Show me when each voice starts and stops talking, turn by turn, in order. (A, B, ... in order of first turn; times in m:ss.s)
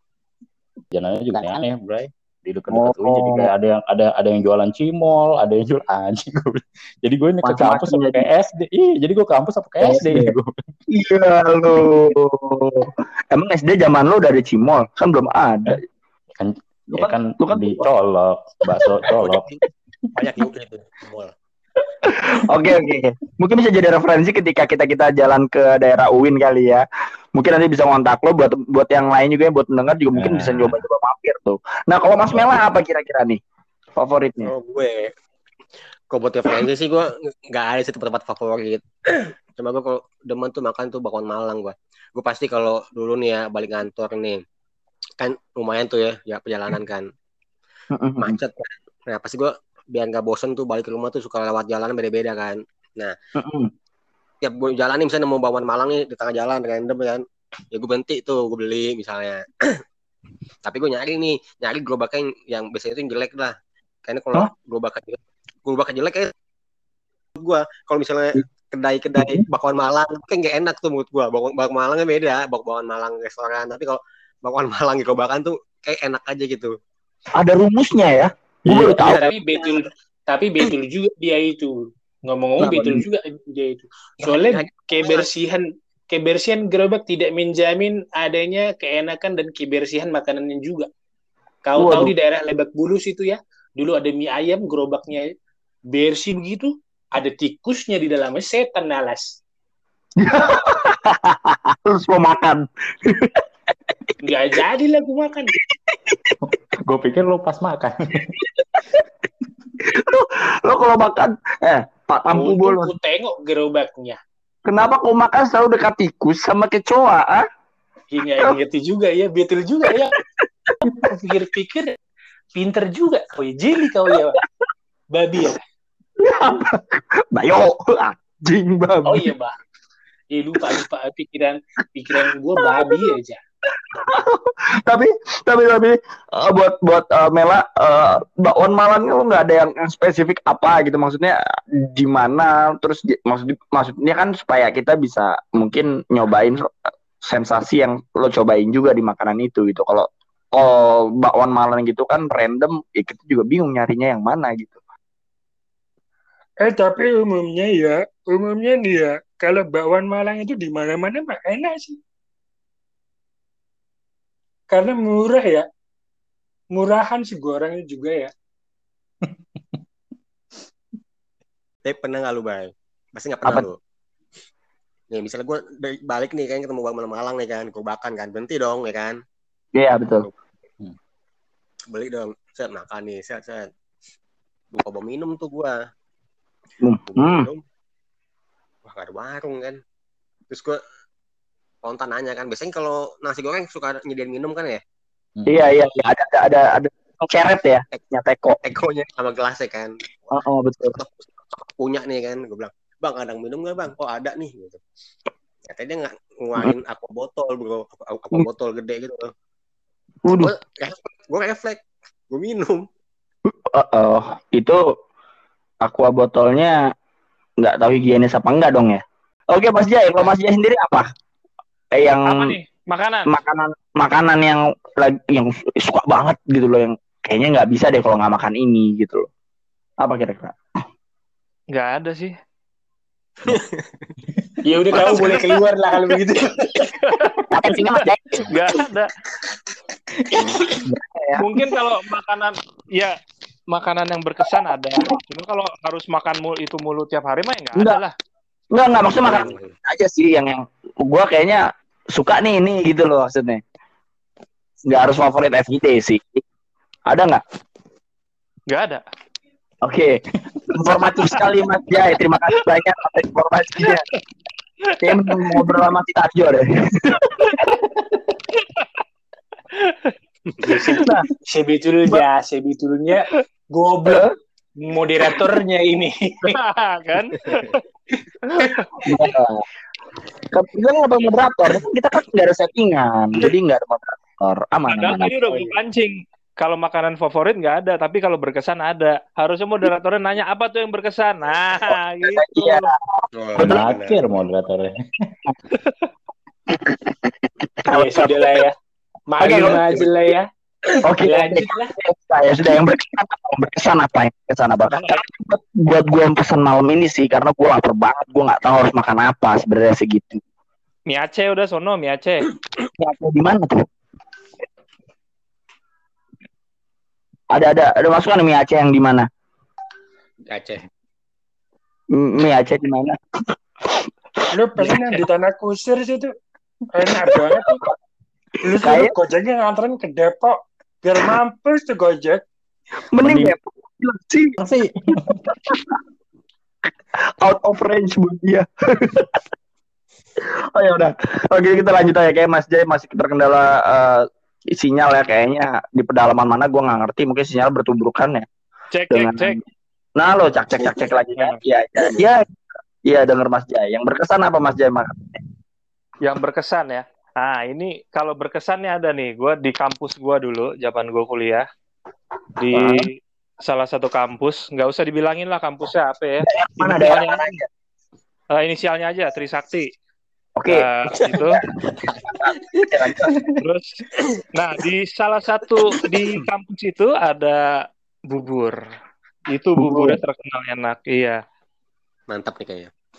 0:00.9-0:10.6 A
0:01.3-0:01.6 B
0:02.7-0:03.5 B
0:07.4-0:08.2 B
0:09.8-0:10.3 B
0:10.9-0:15.8 B
0:16.4-0:19.5 A
0:16.9-0:17.9 B
0:18.7-0:19.1 B
0:19.2-0:19.6 C
0:20.2-0:21.3 C
0:22.0-0:26.8 B
0:27.4-0:33.4 B
0:30.2-0:30.8 A
0:34.0-0:34.5 B
0:34.4-0:35.1 C
0:36.1-0:44.4 C
0:45.2-0:47.1 C
0:47.9-0:48.4 B
0:48.2-0:53.1 C
0:53.4-0:53.7 B
0:54.4-0:59.8 C
1:00.6-1:03.6 C
1:04.1-1:06.3 C
1:07.4-1:16.7 C
1:09.2-1:09.4 B
1:17.4-1:19.3 B
1:18.7-1:19.8 C
1:18.8-1:30.9 D
1:22.6-1:23.0 B
1:24.2-1:25.3 C
1:31.7-1:35.3 D
1:31.8-1:32.1 B
1:35.9-1:39.4 D
1:40.2-1:43.4 B
1:44.2-1:45.5 D
1:45.6-1:46.3 B
1:46.4-1:48.3 A
1:48.2-1:49.0 B
1:49.8-1:52.9 B
1:52.3-1:54.2 D
1:54.7-1:57.4 B
1:58.1-2:00.2 D
2:00.2-2:00.7 B
2:00.8-2:02.0 D
2:02.6-2:04.4 D
2:05.1-2:05.6 D
2:06.2-2:09.3 B
2:09.0-2:09.6 D
2:10.3-2:13.4 D
2:12.2-2:13.0 B
2:13.8-2:34.8 B
2:36.6-2:42.0 E
2:44.7-2:45.7 E
2:46.8-2:48.3 E
2:49.2-2:49.8 A
2:51.8-2:53.8 C
2:55.1-2:59.2 C
2:59.8-3:00.3 B
3:01.9-3:03.7 C
3:04.7-3:05.8 C
3:06.8-3:07.5 B
3:07.1-3:07.6 C
3:08.8-3:09.8 C
3:10.5-3:10.8 C
3:11.8-3:14.8 C
3:15.5-3:18.6 B
3:18.6-3:20.4 C
3:20.3-3:21.0 B
3:20.9-3:24.8 C
3:25.7-3:29.3 C
3:30.3-3:30.5 B
3:30.3-3:32.9 C
3:33.5-3:34.8 B
3:35.8-3:36.8 B
3:37.6-3:41.1 B
3:41.9-3:42.6 B
3:42.2-3:43.3 F
3:43.3-3:49.3 B
3:50.0-3:50.6 B
3:51.7-3:52.3 F
3:53.4-3:54.1 C
3:54.6-3:57.0 D
3:55.0-3:55.4 F
3:57.0-3:59.1 F
3:57.5-3:58.6 B
4:00.2-4:00.9 A
4:00.4-4:01.5 B
4:01.4-4:03.2 F
4:03.7-4:08.1 F
4:07.8-4:08.0 B
4:08.7-4:13.6 B
4:09.1-4:09.8 C
4:14.9-4:16.4 B
4:17.1-4:17.4 B
4:18.7-4:19.0 F
4:19.8-4:24.0 B
4:25.0-4:27.7 B
4:25.0-4:25.7 F
4:28.6-4:28.9 F
4:29.7-4:30.2 F
4:30.5-4:30.8 C
4:30.6-4:34.2 D
4:30.9-4:31.3 B
4:34.1-4:34.3 B
4:34.8-4:36.6 D
4:36.5-4:37.8 F
4:38.5-4:38.9 F
4:39.0-4:39.6 B
4:40.5-4:45.7 B
4:44.9-4:52.9 F
4:51.9-4:53.9 B
4:53.4-4:54.2 C
4:53.6-4:54.9 A
4:56.7-4:57.2 B
4:57.8-4:58.7 B
4:57.9-4:58.7 D
4:59.3-5:00.5 D
4:59.4-5:00.1 B
5:01.0-5:10.4 B
5:01.2-5:01.9 D
5:11.1-5:12.5 F
5:13.0-5:13.9 B
5:17.5-5:19.3 B
5:20.5-5:20.8 C
5:22.1-5:23.2 B
5:24.5-5:26.3 E
5:26.9-5:27.8 E
5:27.3-5:27.7 B
5:28.6-5:32.4 E
5:28.8-5:29.1 B
5:33.1-5:34.6 B
5:33.2-5:33.5 A
5:34.6-5:35.6 A
5:35.1-5:36.0 B
5:37.4-5:39.4 B
5:40.4-5:48.5 B
5:48.9-5:49.6 F
5:49.1-5:49.6 B
5:50.2-5:52.4 B
5:53.1-5:55.4 B
5:56.2-6:01.7 F
6:02.6-6:03.1 F
6:02.7-6:03.1 B
6:03.6-6:07.4 F
6:06.4-6:07.7 B
6:08.6-6:09.9 F
6:10.6-6:10.9 B
6:10.7-6:11.6 F
6:11.4-6:12.8 C
6:12.3-6:13.4 B
6:13.6-6:13.9 F
6:14.2-6:14.4 C
6:14.5-6:17.6 F
6:18.3-6:18.8 F
6:19.5-6:21.4 F
6:19.8-6:20.2 B
6:22.3-6:22.9 C